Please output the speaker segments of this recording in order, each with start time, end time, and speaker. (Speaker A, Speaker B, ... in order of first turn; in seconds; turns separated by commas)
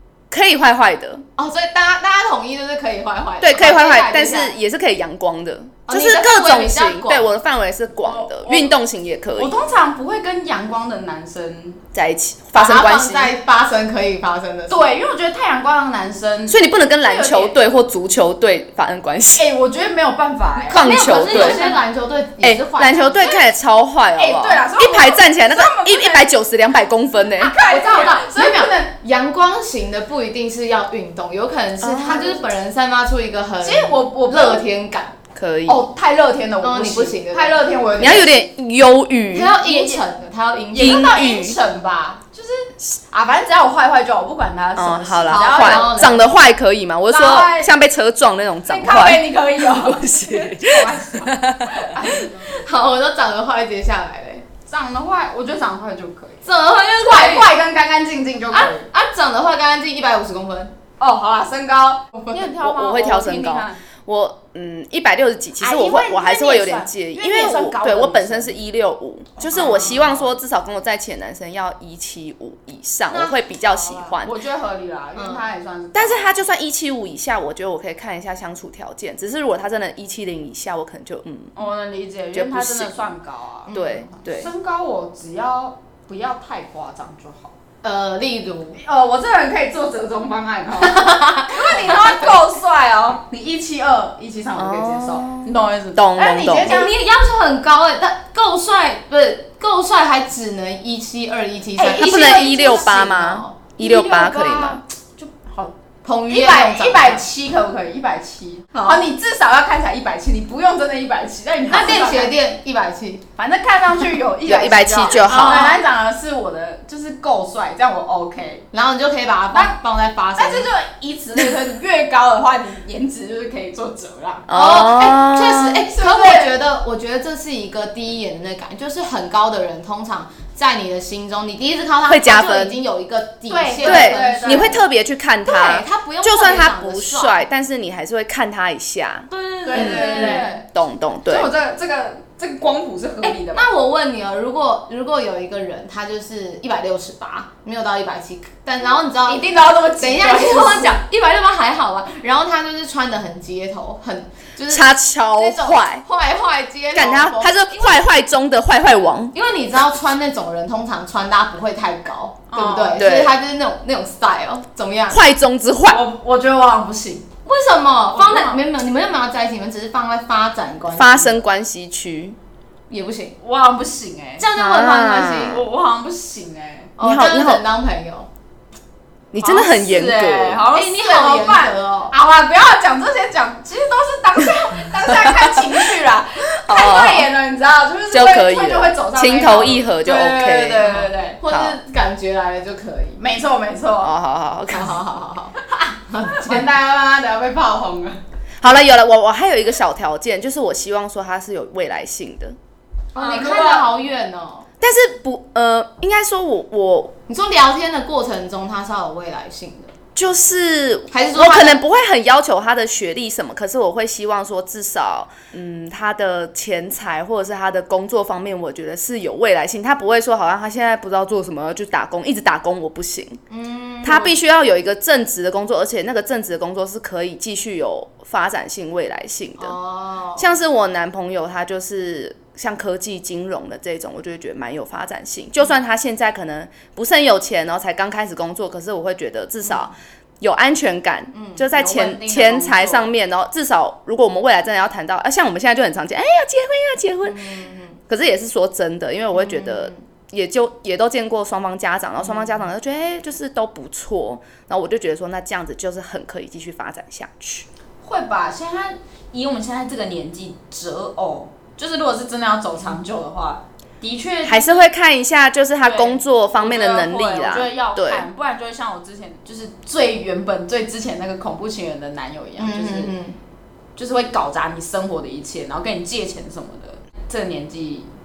Speaker A: 0.3-1.2, Speaker B: 1.4-4.5, Speaker A: 3.4-9.6, Speaker B: 5.9-7.3, Speaker C: 8.0-8.8, Speaker C: 9.4-11.8, Speaker A: 11.9-13.4, Speaker B: 12.6-14.8, Speaker C: 14.7-17.6, Speaker A: 16.5-19.5, Speaker C: 19.4-21.8, Speaker A: 20.7-21.7, Speaker B: 20.7-23.4, Speaker A: 22.4-27.6, Speaker C: 24.2-26.3, Speaker C: 27.4-28.9, Speaker B: 27.6-35.1, Speaker A: 31.8-32.4, Speaker C: 32.0-32.4, Speaker C: 33.6-34.6, Speaker A: 35.4-35.8, Speaker C: 35.7-38.5, Speaker B: 36.6-38.2, Speaker A: 38.0-39.5, Speaker B: 39.3-41.1, Speaker C: 39.5-40.0, Speaker C: 40.7-46.1, Speaker A: 40.8-41.6, Speaker A: 44.8-51.9, Speaker B: 45.3-46.4, Speaker C: 47.1-47.7, Speaker C: 48.7-52.5, Speaker B: 52.0-54.5, Speaker C: 54.7-56.5, Speaker B: 56.5-57.5, Speaker C: 57.0-58.9, Speaker B: 58.5-60.7, Speaker C: 61.0-63.8, Speaker A: 62.5-74.3, Speaker C: 65.6-68.6, Speaker C: 69.4-70.3, Speaker B: 69.5-70.0, Speaker B: 73.1-74.2, Speaker C: 74.2-76.3, Speaker B: 75.2-75.5, Speaker A: 75.9-81.5, Speaker C: 81.5-87.5, Speaker A: 82.3-83.0, Speaker B: 83.7-84.1, Speaker A: 83.7-84.5, Speaker B: 87.8-88.8, Speaker C: 88.8-96.9, Speaker B: 90.8-92.4, Speaker A: 94.5-96.8, Speaker B: 96.6-103.6, Speaker C: 101.8-103.1, Speaker A: 102.0-104.8, Speaker C: 103.8-105.7, Speaker B: 106.0-107.3, Speaker C: 106.3-112.3, Speaker B: 108.7-109.1, Speaker B: 111.7-113.2, Speaker C: 113.4-118.7, Speaker A: 114.4-115.8, Speaker B: 114.5-115.8, Speaker B: 118.7-120.7, Speaker C: 119.5-119.8, Speaker C: 120.3-124.5, Speaker A: 124.5-125.9, Speaker B: 124.5-134.8, Speaker C: 125.9-126.5, Speaker A: 132.1-132.8, Speaker C: 133.5-134.8, Speaker A: 133.8-141.5, Speaker B: 135.4-137.4, Speaker B: 139.3-140.6, Speaker C: 139.7-140.6, Speaker C: 141.3-143.7, Speaker B: 143.2-149.4, Speaker C: 149.2-151.0, Speaker B: 150.0-158.0, Speaker A: 154.7-156.1, Speaker A: 156.9-159.3, Speaker B: 159.3-165.2, Speaker C: 162.5-163.0, Speaker A: 163.0-163.4, Speaker A: 165.1-166.0, Speaker C: 165.9-167.3, Speaker B: 167.5-171.4, Speaker C: 168.1-168.6, Speaker A: 170.9-172.4, Speaker B: 172.9-173.4, Speaker C: 173.4-174.5, Speaker B: 174.4-175.6, Speaker A: 174.6-175.6, Speaker C: 175.4-176.9, Speaker B: 177.0-178.3, Speaker A: 177.0-177.6, Speaker A: 179.3-180.6, Speaker C: 179.4-191.4, Speaker B: 180.7-182.1, Speaker A: 185.1-185.8, Speaker A: 186.7-187.3, Speaker A: 188.1-190.9, Speaker B: 190.8-193.2, Speaker A: 191.5-191.8, Speaker C: 193.2-194.1, Speaker A: 194.0-195.0, Speaker B: 194.7-195.6, Speaker C: 195.7-198.2, Speaker B: 196.1-196.7, Speaker A: 198.6-202.6, Speaker B: 203.2-204.7, Speaker C: 203.2-203.9, Speaker A: 204.8-207.2, Speaker B: 207.3-209.9, Speaker A: 210.2-223.4, Speaker B: 211.1-211.8, Speaker B: 223.5-224.3, Speaker A: 224.0-229.8, Speaker B: 229.6-230.5, Speaker A: 230.4-247.4, Speaker B: 241.3-241.6, Speaker C: 241.7-243.1, Speaker B: 247.2-248.0, Speaker A: 248.1-257.7, Speaker B: 249.3-250.0, Speaker C: 258.0-264.9, Speaker A: 264.4-268.3, Speaker C: 265.8-273.1, Speaker B: 272.6-273.4, Speaker C: 274.0-278.1